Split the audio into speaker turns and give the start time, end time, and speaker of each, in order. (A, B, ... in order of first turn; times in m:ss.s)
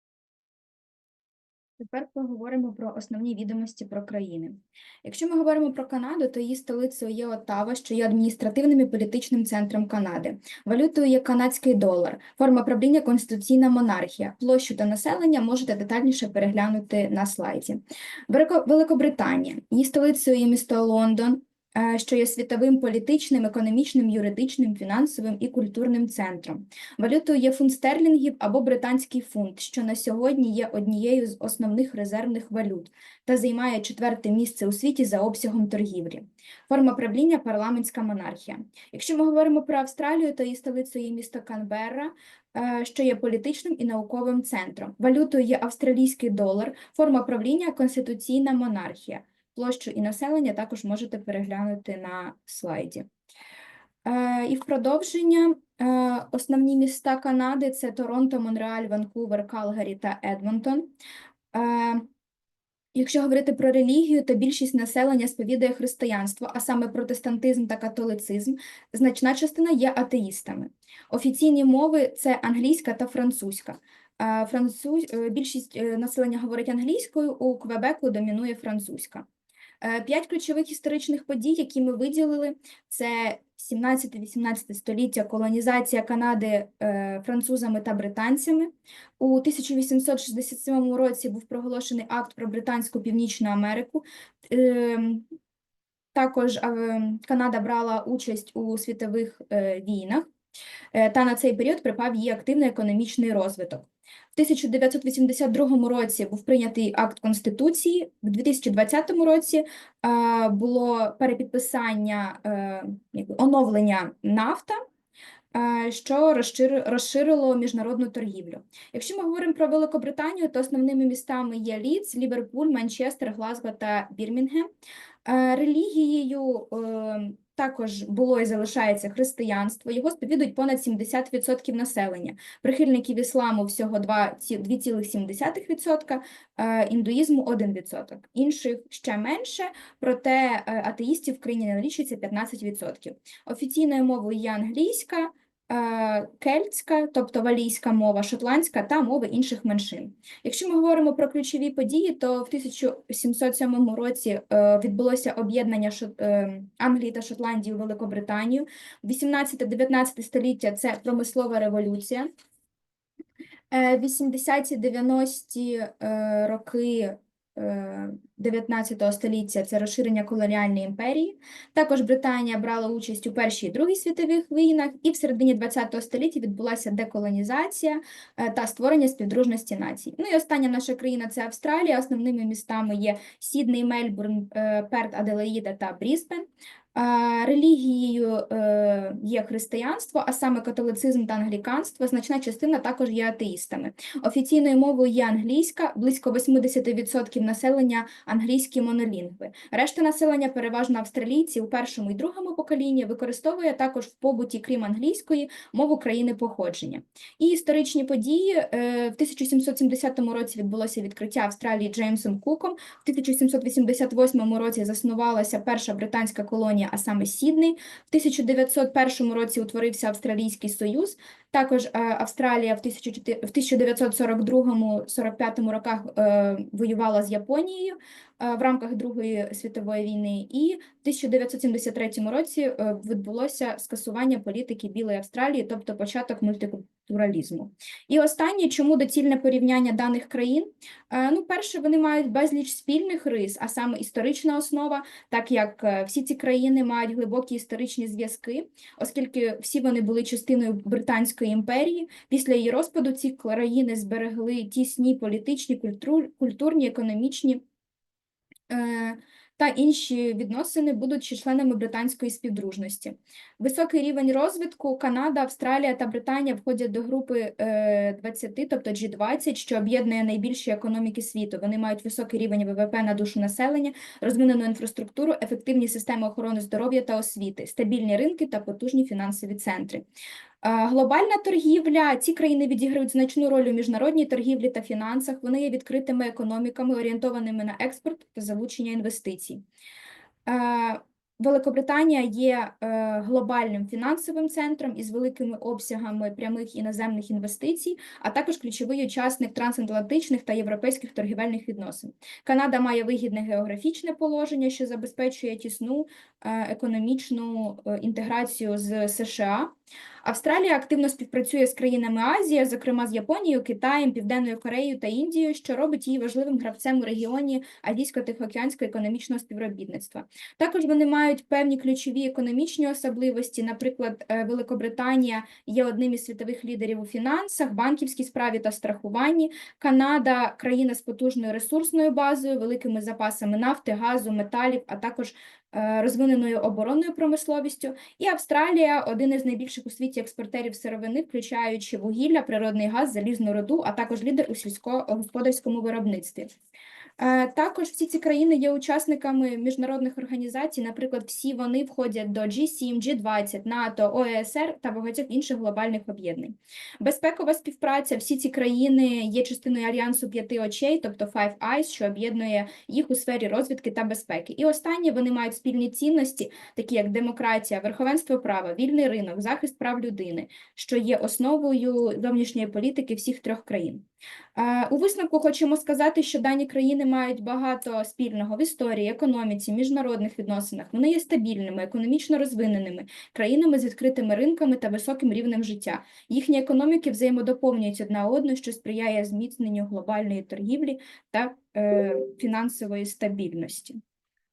0:01.8-0:53.1 A
0:54.0-1:00.9 A
1:01.5-1:02.1 A
1:02.9-1:19.3 A
1:19.8-1:35.2 A
1:36.1-1:40.3 A
1:40.9-1:54.8 A
1:55.5-2:04.7 A
2:05.2-2:42.3 A
2:43.7-4:17.6 A
4:18.7-4:40.0 A
4:40.6-4:49.6 A
4:50.4-5:46.5 A
5:47.2-6:34.0 A